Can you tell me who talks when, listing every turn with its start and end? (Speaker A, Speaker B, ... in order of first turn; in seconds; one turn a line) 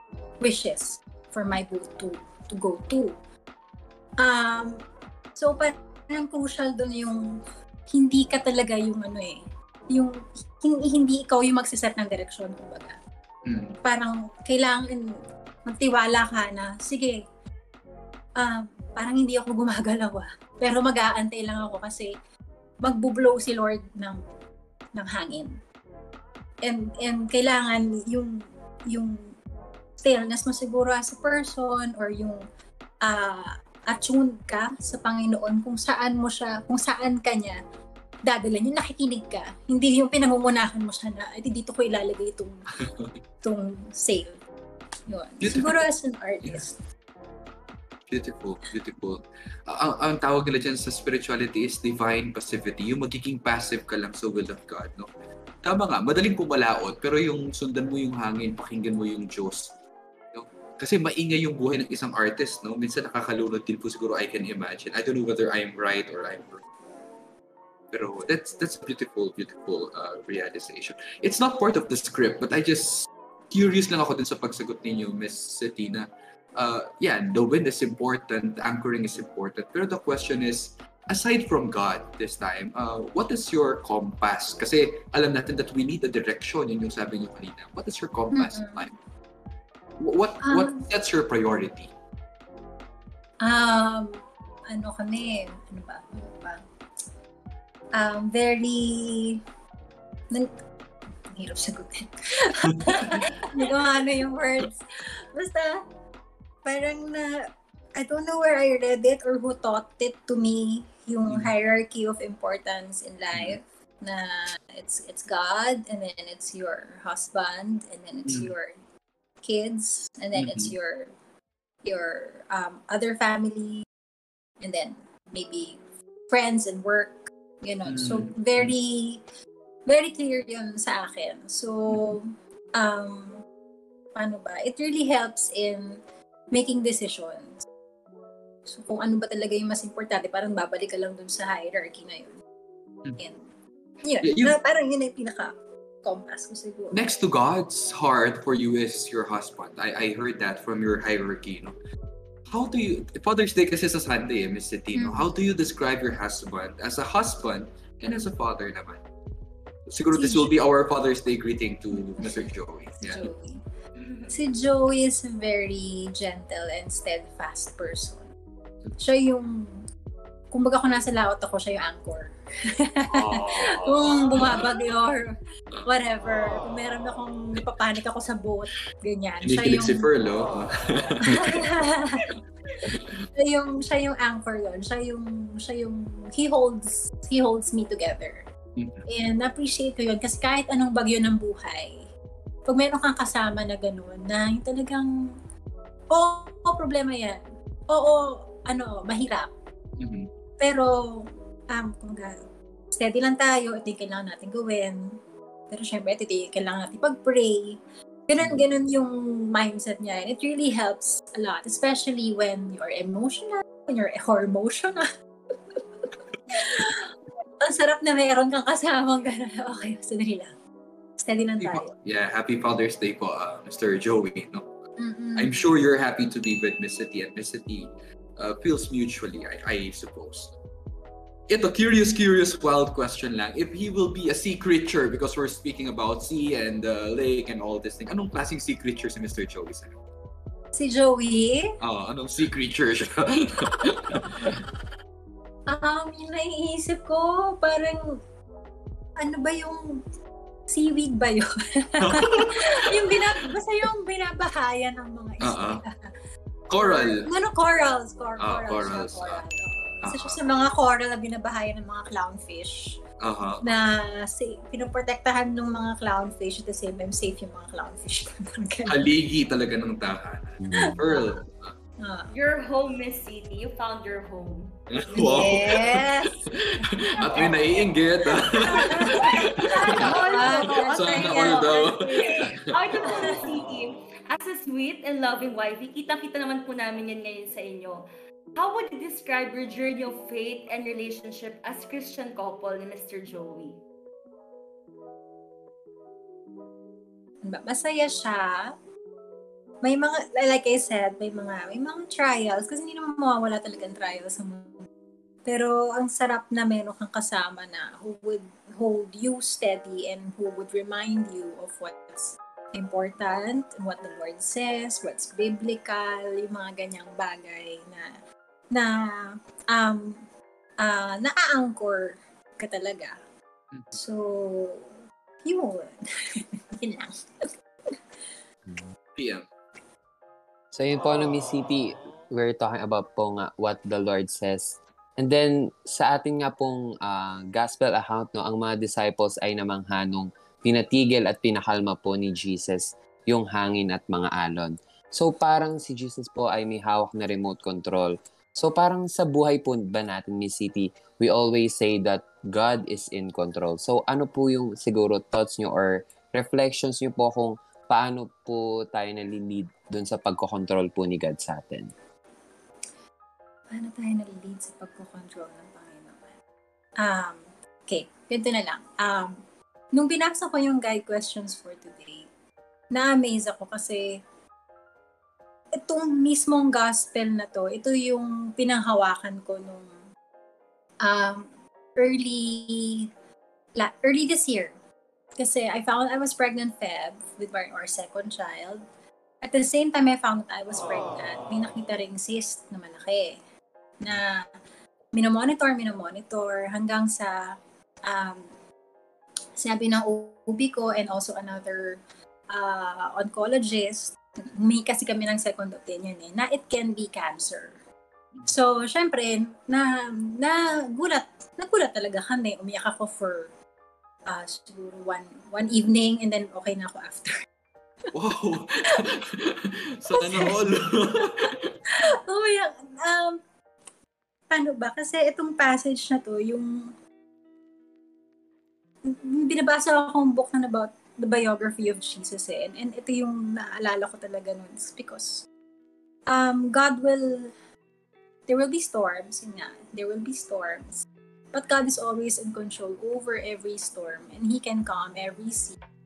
Speaker A: 0.4-3.1
Speaker A: 4.2-4.8
Speaker A: 5.4-7.2
Speaker A: 7.9-9.4
Speaker A: 9.9-13.0
Speaker B: 13.4-13.8
Speaker A: 13.8-15.1
Speaker A: 15.6-17.2
Speaker A: 18.4-22.1
Speaker A: 22.8-24.2
Speaker A: 24.9-25.5
Speaker A: 26.6-29.3
Speaker A: 30.0-32.4
Speaker A: 33.0-37.6
Speaker A: 38.2-42.6
Speaker B: 42.9-43.1
Speaker A: 43.4-44.3
Speaker A: 45.1-46.8
Speaker B: 45.4-45.8
Speaker B: 48.1-55.1
Speaker B: 55.6-59.7
Speaker B: 60.3-66.6
Speaker B: 67.9-88.9
Speaker A: 88.3-88.8
Speaker B: 90.0-91.9
Speaker A: 90.4-90.8
Speaker A: 93.4-96.6
Speaker A: 98.0-99.4
Speaker A: 101.4-104.8
Speaker B: 103.0-103.4
Speaker A: 105.3-105.8
Speaker A: 106.6-118.8
Speaker B: 118.3-118.5
Speaker A: 119.4-121.1
Speaker B: 120.3-120.7
Speaker A: 121.8-123.8
Speaker A: 124.6-129.2
Speaker B: 127.9-128.7
Speaker A: 129.9-133.4
Speaker B: 131.9-132.2
Speaker A: 134.1-136.0
Speaker A: 136.5-137.6
Speaker A: 138.7-142.4
Speaker A: 143.2-143.5
Speaker A: 144.0-147.0
Speaker B: 144.2-144.5
Speaker B: 146.9-151.7
Speaker B: 152.5-159.0
Speaker A: 154.9-155.2
Speaker B: 159.9-163.2
Speaker A: 160.1-160.5
Speaker A: 163.0-163.6
Speaker A: 164.3-168.3
Speaker A: 169.0-169.5
Speaker A: 170.5-172.3
Speaker A: 172.9-175.3
Speaker B: 173.1-174.6
Speaker A: 175.9-180.1
Speaker B: 179.4-181.7
Speaker A: 181.2-182.2
Speaker A: 182.8-188.4
Speaker B: 188.8-189.0
Speaker A: 189.1-191.9
Speaker A: 192.7-195.1
Speaker A: 196.1-199.5
Speaker B: 200.0-200.3
Speaker A: 200.6-202.3
Speaker A: 202.9-205.0
Speaker A: 205.7-215.1
Speaker A: 216.5-217.1
Speaker A: 217.6-220.5
Speaker A: 221.2-221.9
Speaker B: 221.6-224.7
Speaker A: 225.0-225.5
Speaker B: 225.4-230.5
Speaker B: 231.5-240.0
Speaker A: 240.7-241.7
Speaker B: 241.8-244.6
Speaker A: 245.7-248.2
Speaker A: 249.2-249.8
Speaker A: 250.7-255.8
Speaker B: 252.0-253.2
Speaker B: 255.4-255.8
Speaker B: 256.7-257.2
Speaker A: 256.8-262.9
Speaker B: 258.4-259.4
Speaker B: 260.0-260.4
Speaker B: 263.2-263.6
Speaker A: 263.6-268.9
Speaker B: 268.9-271.7
Speaker C: 270.6-270.9
Speaker A: 270.8-271.3
Speaker A: 272.0-272.3
Speaker D: 272.3-274.7
Speaker B: 274.9-283.5
Speaker A: 275.2-276.5
Speaker A: 277.2-277.7
Speaker D: 277.2-277.9
Speaker A: 278.6-281.8
Speaker D: 278.8-288.0
Speaker A: 283.0-283.4
Speaker D: 288.6-293.8
Speaker A: 297.4-298.7
Speaker A: 299.8-304.9
Speaker A: 305.5-318.1
Speaker A: 318.7-320.2
Speaker A: 320.8-323.1
Speaker B: 323.7-324.0
Speaker A: 323.9-324.9
Speaker A: 325.4-325.9
Speaker A: 326.8-327.4
Speaker C: 328.7-328.9
Speaker B: 329.2-329.4
Speaker C: 330.7-361.9
Speaker A: 363.7-366.3
Speaker A: 367.0-369.4
Speaker A: 369.9-372.3
Speaker A: 372.9-374.1
Speaker A: 375.8-379.9
Speaker A: 381.0-383.1
Speaker A: 383.8-384.8
Speaker A: 385.4-388.8
Speaker A: 389.4-393.4
Speaker A: 394.0-394.4
Speaker A: 395.1-397.4
Speaker A: 398.1-398.5
Speaker A: 399.6-402.0
Speaker A: 402.5-407.8
Speaker A: 408.5-413.5
Speaker A: 414.3-417.4
Speaker B: 418.1-421.7
Speaker A: 420.2-420.6
Speaker A: 422.3-423.4
Speaker A: 424.5-426.7
Speaker A: 429.1-435.4
Speaker A: 436.3-437.5
Speaker A: 438.5-445.8